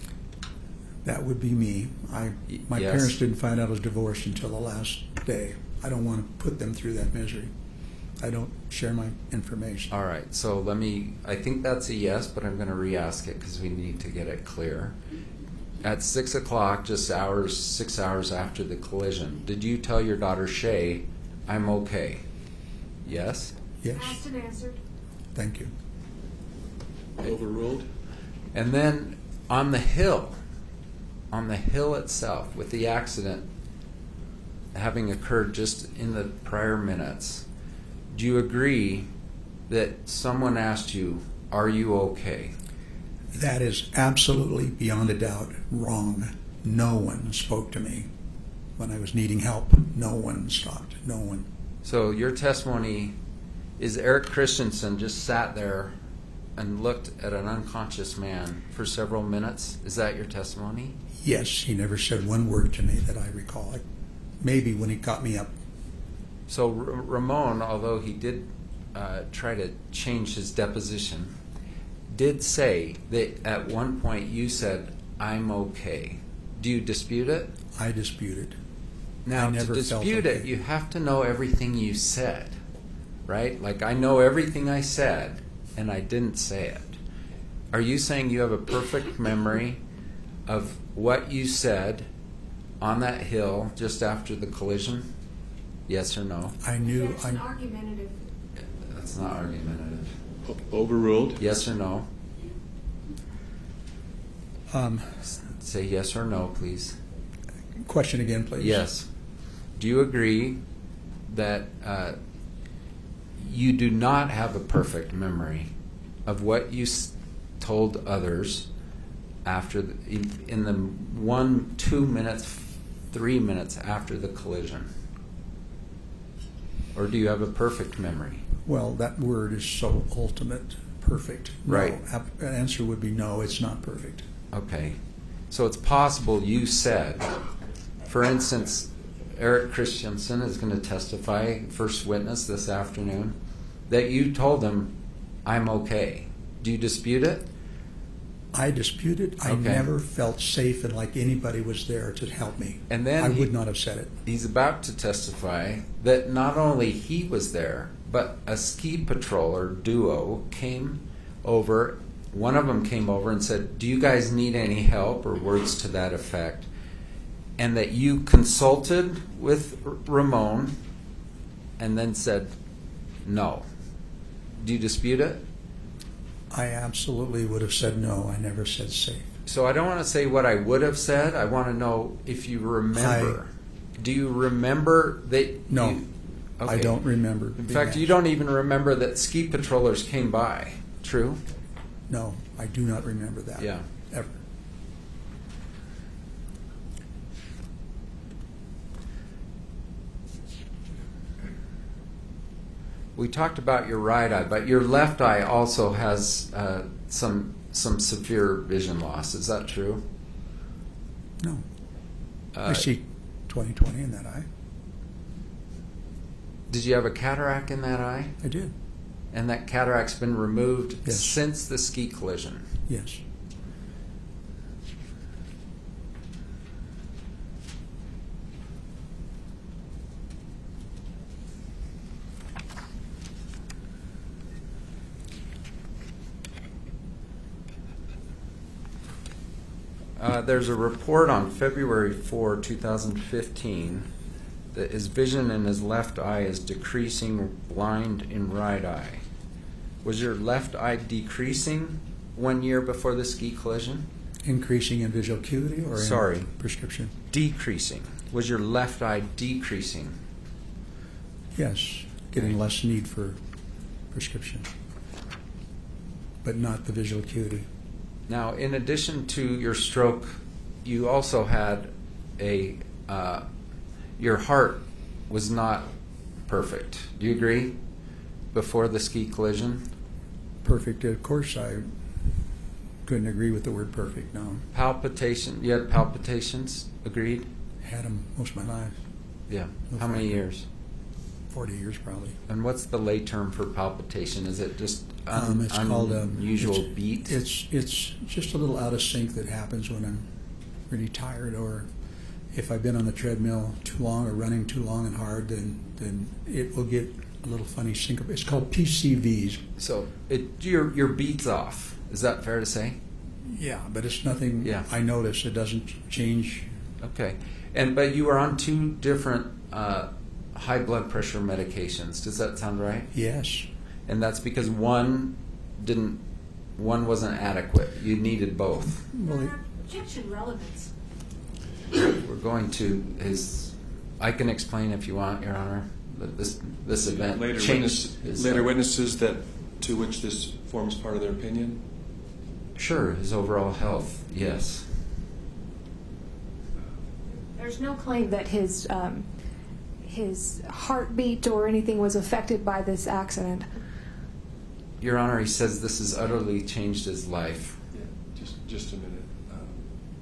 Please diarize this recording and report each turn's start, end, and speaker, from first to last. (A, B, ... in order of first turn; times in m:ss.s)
0:01.0-0:07.5 A
0:02.6-0:03.1 B
0:08.2-0:09.9 A
0:09.9-0:15.0 B
0:15.8-0:22.2 B
0:23.0-0:23.5 B
0:23.8-0:24.2 A
0:23.9-0:24.8 C
0:25.3-0:25.7 A
0:27.2-0:27.8 D
0:28.5-0:30.4 B
0:31.3-0:33.5 B
0:34.7-0:37.4 B
0:38.1-0:39.1 B
0:39.7-0:42.5 B
0:43.3-0:48.1 A
0:48.8-0:51.5 A
0:51.8-0:53.2 B
0:53.8-0:55.9 B
0:56.6-1:01.0 B
1:01.2-1:03.8 A
1:04.4-1:05.5 A
1:06.5-1:11.3 B
1:12.1-1:17.5 B
1:17.7-1:18.6 A
1:19.2-1:22.6 B
1:19.3-1:20.5 A
1:23.3-1:27.0 B
1:27.7-1:29.8 B
1:30.5-1:32.1 B
1:32.8-1:35.1 B
1:35.9-1:36.6 B
1:36.6-1:37.5 A
1:36.8-1:38.2 C
1:38.8-1:40.1 B
1:40.4-1:41.4 D
1:41.4-1:42.1 B
1:44.7-1:45.2 A
1:45.2-1:47.0 B
1:47.8-1:48.8 A
1:48.6-1:49.1 B
1:49.8-1:50.6 B
1:51.3-1:52.2 B
1:53.4-1:55.7 B
1:56.2-1:58.7 B
1:59.4-2:04.9 B
2:06.9-2:08.4 B
2:08.6-2:14.2 A
2:11.7-2:12.0 B
2:14.5-2:15.0 B
2:15.5-2:17.4 B
2:18.0-2:23.4 B
2:23.9-2:27.5 B
2:28.5-2:34.2 A
2:29.4-2:29.9 B
2:32.9-2:33.5 B
2:34.2-2:46.7 B
2:47.6-2:50.8 B
2:51.8-2:52.5 B
2:53.2-2:53.6 B
2:54.6-2:55.4 B
2:56.5-2:59.3 A
2:59.4-3:07.0 B
3:02.9-3:03.4 A
3:05.7-3:06.0 A
3:06.6-3:08.2 A
3:07.6-3:11.4 B
3:12.1-3:14.4 A
3:13.6-3:13.9 B
3:23.2-3:30.0 B
3:32.5-3:32.9 B
3:32.6-3:34.5 A
3:36.7-3:38.3 B
3:38.4-3:38.7 A
3:39.3-3:42.7 B
3:41.0-3:41.4 A
3:42.9-3:43.2 A
4:00.2-4:04.1 B
4:04.7-4:09.2 B
4:10.0-4:14.1 B
4:14.4-4:17.1 A
4:15.9-4:16.5 B
4:17.3-4:20.2 B
4:21.5-4:23.4 A
4:24.1-4:24.7 A
4:26.4-4:27.7 A
4:28.3-4:33.4 B
4:34.2-4:35.9 B
4:36.5-4:37.8 B
4:38.5-4:39.8 B
4:40.6-4:41.9 A
4:43.0-4:44.6 A
4:44.7-4:47.5 B
4:47.8-4:49.0 A
4:49.5-4:50.6 B
4:49.9-4:50.4 A
4:51.5-4:52.4 A
4:52.5-4:57.3 B
4:55.3-5:00.3 A
5:00.9-5:01.9 A
5:02.5-5:09.6 A
5:09.8-5:13.0 B
5:13.4-5:16.7 A
5:14.6-5:14.9 B
5:17.0-5:23.1 B
5:23.1-5:23.7 A
5:24.1-5:26.2 B
5:26.8-5:29.1 B
5:29.1-5:29.5 A
5:29.2-5:30.9 C
5:31.9-5:38.7 B
5:37.0-5:41.8 D
5:42.8-5:45.1 B
5:47.5-5:49.3 C
5:50.0-5:53.7 C
5:55.0-5:57.8 B
5:57.9-5:59.8 D